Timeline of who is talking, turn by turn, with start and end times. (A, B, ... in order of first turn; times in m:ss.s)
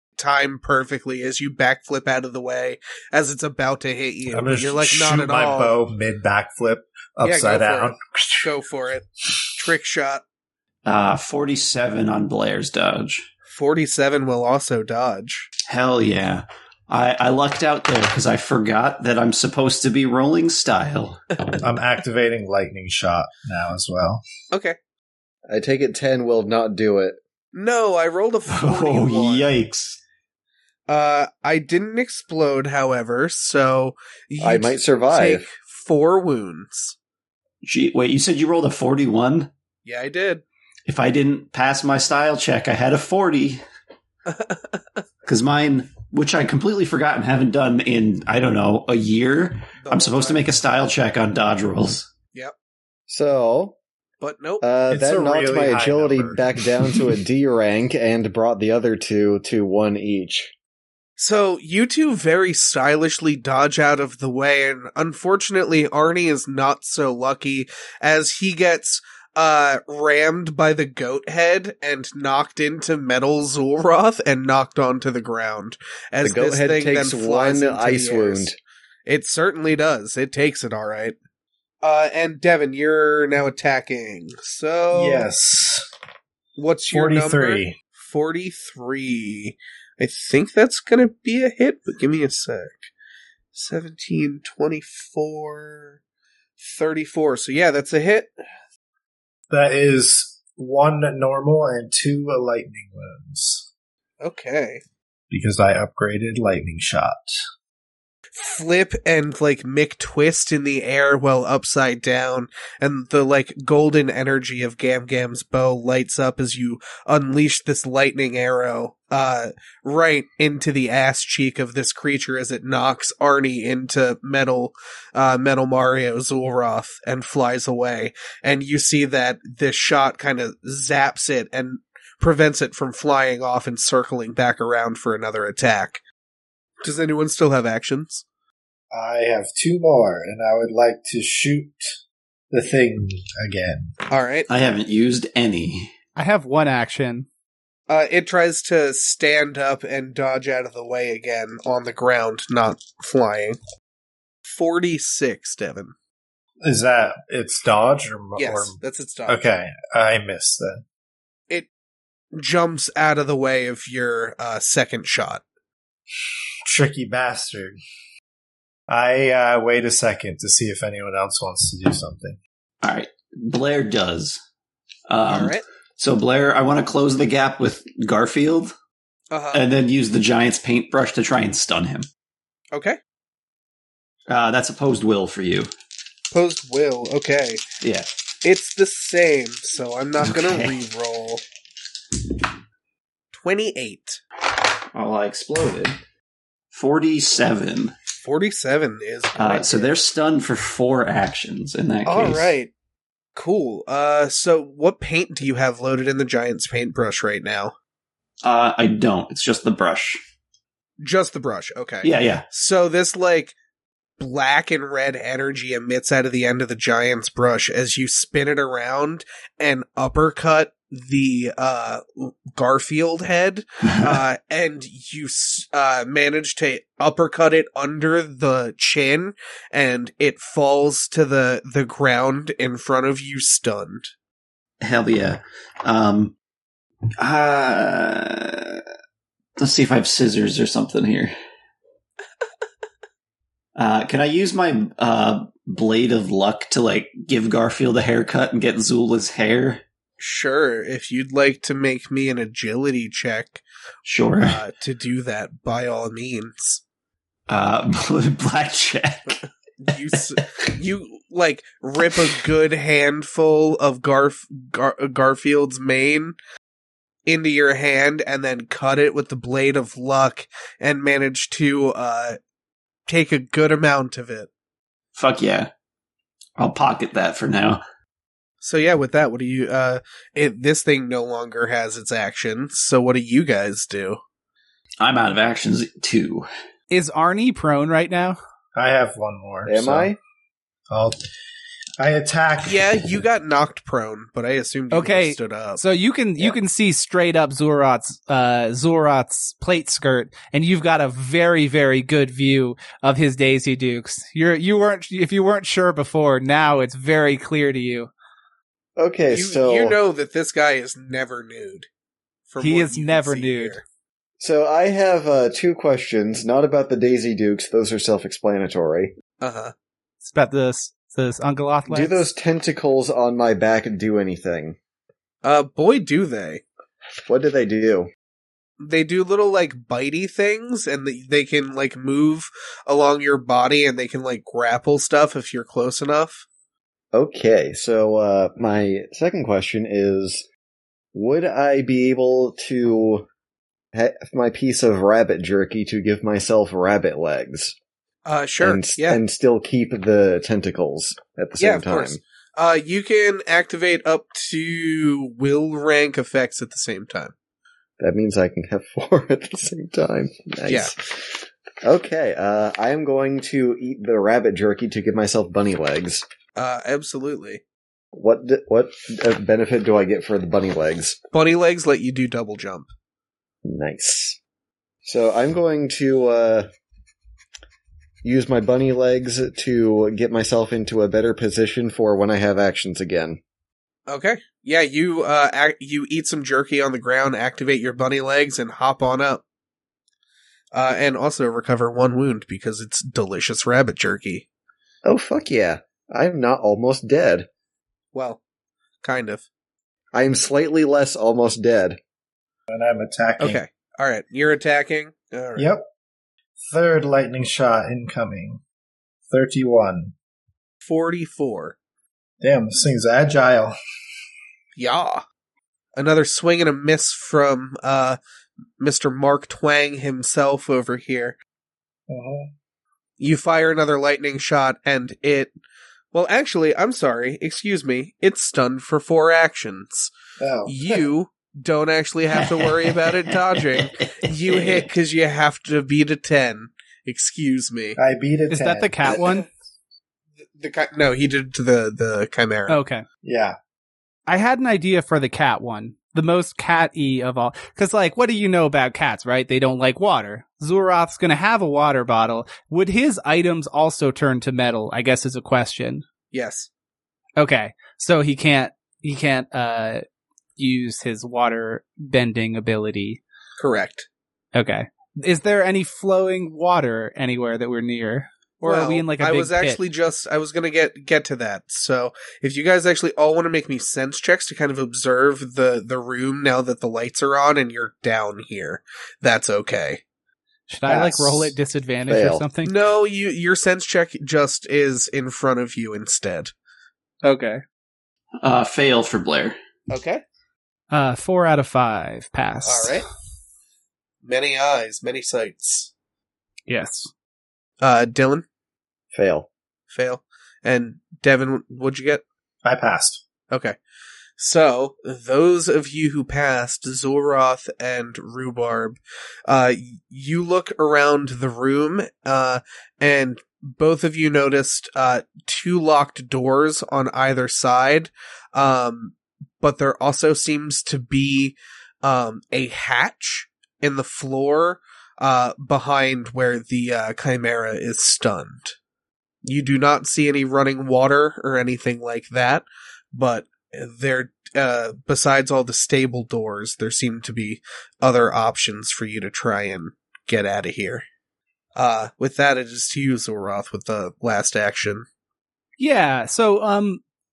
0:00.2-0:05.7 A
0:04.3-0:08.5 B
0:07.2-0:10.2 A
0:10.8-0:13.2 C
0:13.5-0:15.5 A
0:15.7-0:21.4 C
0:21.6-0:24.2 B
0:24.5-0:24.8 A
0:25.5-0:27.2 D
0:27.5-0:29.5 A
0:28.5-0:30.0 C
0:30.9-0:36.9 A
0:34.4-0:35.5 D
0:37.6-0:39.5 C
0:39.8-0:40.4 A
0:40.8-0:43.6 C
0:44.3-0:44.7 A
0:45.2-0:52.1 C
0:49.8-0:50.5 A
0:53.1-0:53.8 D
0:54.2-0:54.6 A
0:54.6-1:00.5 D
0:54.9-0:57.2 B
1:01.2-1:18.5 A
1:16.2-1:18.6 D
1:19.0-1:21.2 A
1:21.8-1:25.3 A
1:24.9-1:25.9 B
1:26.6-1:32.8 A
1:26.9-1:27.8 B
1:33.5-1:36.0 A
1:36.6-1:38.3 A
1:39.5-1:43.7 B
1:44.2-1:44.8 A
1:45.3-1:47.3 B
1:48.4-2:16.0 A
2:16.8-2:18.2 A
2:18.9-2:21.9 B
2:22.5-2:23.9 B
2:24.1-2:24.5 A
2:24.5-2:25.9 C
2:26.2-2:27.3 E
2:27.9-2:33.6 A
2:34.4-2:35.9 A
2:36.6-2:40.8 B
2:38.4-2:39.4 A
2:42.3-2:45.4 A
2:46.6-2:47.8 B
2:48.9-2:52.4 B
2:52.8-2:54.4 C
2:55.1-2:58.7 C
2:55.3-2:55.6 A
2:59.3-2:59.7 A
2:59.5-3:02.1 C
3:02.7-3:03.0 A
3:04.3-3:05.7 C
3:06.3-3:07.6 A
3:07.8-3:08.1 C
3:08.4-3:11.4 A
3:10.2-3:10.8 C
3:13.3-3:14.2 A
3:14.9-3:16.0 C
3:16.7-3:17.9 C
3:18.2-3:19.9 A
3:19.4-3:22.5 C
3:22.0-3:22.7 A
3:23.4-3:27.7 A
3:28.4-3:30.2 C
3:31.0-3:33.5 A
3:32.0-3:32.4 C
3:34.2-3:54.1 A
3:54.8-3:56.3 C
3:57.2-3:58.8 C
3:59.6-4:01.3 C
4:03.8-4:09.8 C
4:10.2-4:13.6 A
4:14.0-4:14.6 C
4:14.4-4:16.8 A
4:17.5-4:19.4 C
4:19.3-4:26.3 A
4:27.2-4:32.4 A
4:33.1-4:34.5 A
4:35.1-4:35.7 C
4:36.6-4:37.8 C
4:38.6-4:44.2 A
4:45.0-4:46.5 C
4:46.9-4:48.4 E
4:48.7-4:50.1 B
4:49.6-4:50.2 D
4:50.9-4:51.2 B
4:52.0-4:53.2 B
4:52.6-4:55.8 A
4:54.9-5:08.1 E
5:09.0-5:10.0 D
5:09.3-5:11.9 A
5:12.5-5:13.8 A
5:12.6-5:13.8 E
5:14.4-5:19.1 D
5:19.4-5:19.7 A
5:20.2-5:22.2 E
5:21.9-5:24.8 D
5:25.4-5:26.6 A
5:27.2-5:28.1 D
5:28.8-5:36.4 A
5:37.1-5:40.4 D
5:41.1-5:43.3 D
5:43.9-5:47.8 D
5:48.2-5:49.2 A
5:48.6-5:52.2 D
5:51.6-5:57.3 A
5:58.0-6:06.2 D
6:06.6-6:07.6 A
6:08.1-6:11.2 D
6:11.3-6:12.9 A
6:13.6-6:14.4 D
6:15.0-6:16.7 D
6:18.2-6:23.4 D
6:24.1-6:29.4 A
6:30.7-6:34.4 A
6:35.0-6:37.5 D
6:38.1-6:38.4 A
6:39.0-6:39.4 A
6:40.1-6:42.0 D
6:42.7-6:43.6 B
6:43.4-6:45.7 A
6:45.6-6:45.8 B
6:46.7-6:48.6 B
6:49.3-6:50.1 B
6:50.8-6:51.8 A
6:52.4-6:53.7 B
6:54.8-6:55.2 A
6:56.0-6:58.2 A
6:58.8-7:01.4 A
7:02.1-7:02.5 B
7:03.2-7:05.5 A
7:06.1-7:10.1 A
7:10.4-7:11.0 B
7:10.6-7:18.0 A
7:12.3-7:14.9 C
7:18.0-7:19.2 B
7:18.5-7:19.4 E
7:19.1-7:19.4 A
7:20.6-7:22.8 A
7:22.7-7:23.0 E
7:23.2-7:23.6 B
7:24.3-7:36.0 E
7:36.3-7:36.7 A
7:37.4-7:40.0 E
7:40.6-7:43.2 E
7:43.6-7:44.1 A
7:44.5-7:49.8 E
7:48.6-8:00.0 A
8:00.7-8:02.8 E
8:00.9-8:01.5 D
8:02.1-8:02.4 D
8:02.6-8:06.5 A
8:07.2-8:07.6 E
8:08.4-8:09.6 C
8:09.9-8:10.2 A
8:10.9-8:13.0 E
8:12.6-8:13.0 A
8:14.2-8:15.9 A
8:16.7-8:17.1 E
8:17.8-8:18.4 A
8:19.1-8:19.5 D
8:19.9-8:22.2 A
8:22.6-8:23.2 B
8:23.5-8:23.8 A
8:24.4-8:48.7 A
8:49.4-9:01.0 A
9:01.8-9:05.0 A
9:05.8-9:07.0 E